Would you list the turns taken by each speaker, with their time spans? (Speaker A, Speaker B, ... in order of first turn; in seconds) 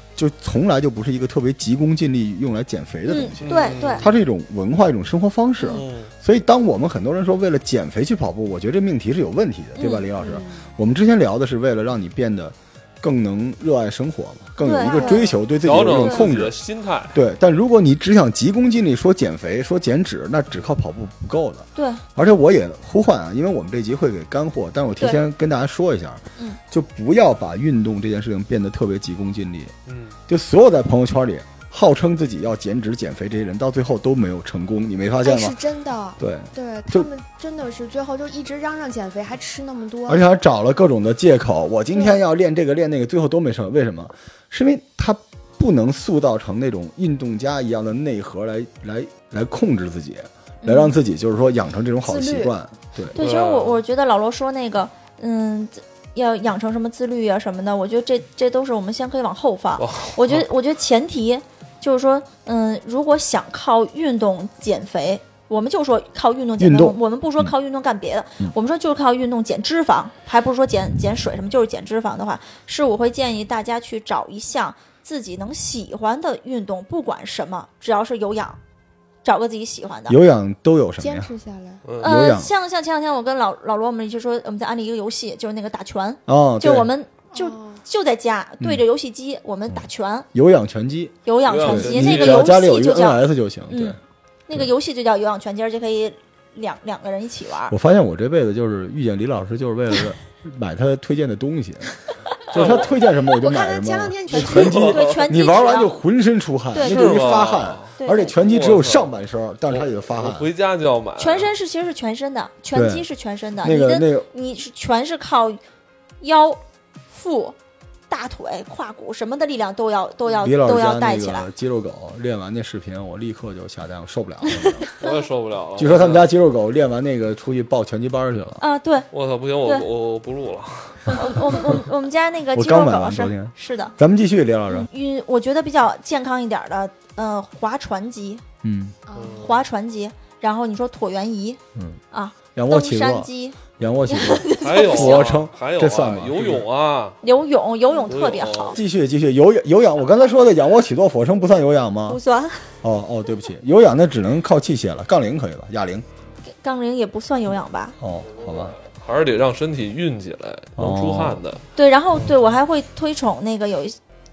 Speaker A: 0.2-16.6, 17.1-29.7, 30.3-35.6, 36.2-37.1, 40.1-53.2, 66.6-67.5, 80.1-81.3, 82.0-82.5, 86.3-86.9, 89.7-94.0, 97.7-101.9, 102.5-110.5, 112.7-113.1, 113.6-114.3, 120.4-124.9, 125.8-128.6, 132.5-134.9, 138.6-138.9, 141.8-142.0, 142.6-146.7, 148.7-152.2, 152.8-156.1, 158.0-158.8, 160.8-161.4
Speaker B: 3.1-4.1, 9.8-10.1, 14.6-15.3, 15.9-16.3, 21.8-22.0, 50.6-51.0, 53.1-78.6, 79.2-80.2, 82.0-90.3, 91.2-97.8, 104.5-106.0, 106.7-108.4, 111.2-115.6, 116.2-117.6, 118.1-121.5, 128.6-129.1, 131.1-133.9, 134.7-138.4, 139.4-141.6, 142.1-145.3, 147.2-148.8, 152.1-152.7, 156.5-157.9, 161.8-164.0
Speaker C: 3.4-4.2, 5.7-6.1, 15.6-17.1, 29.9-30.2, 53.1-53.8, 59.8-60.5, 81.8-82.1, 91.5-92.5, 102.5-102.9, 104.3-105.2, 106.8-109.1, 109.7-111.5, 125.0-126.3, 129.1-131.7, 139.2-139.6, 144.6-147.2, 148.1-148.8, 158.3-161.6
Speaker D: 10.2-10.7, 14.8-15.4, 35.2-40.2, 41.9-42.2, 52.0-52.5, 81.0-81.8, 87.3-87.8, 103.3-105.0, 139.1-139.6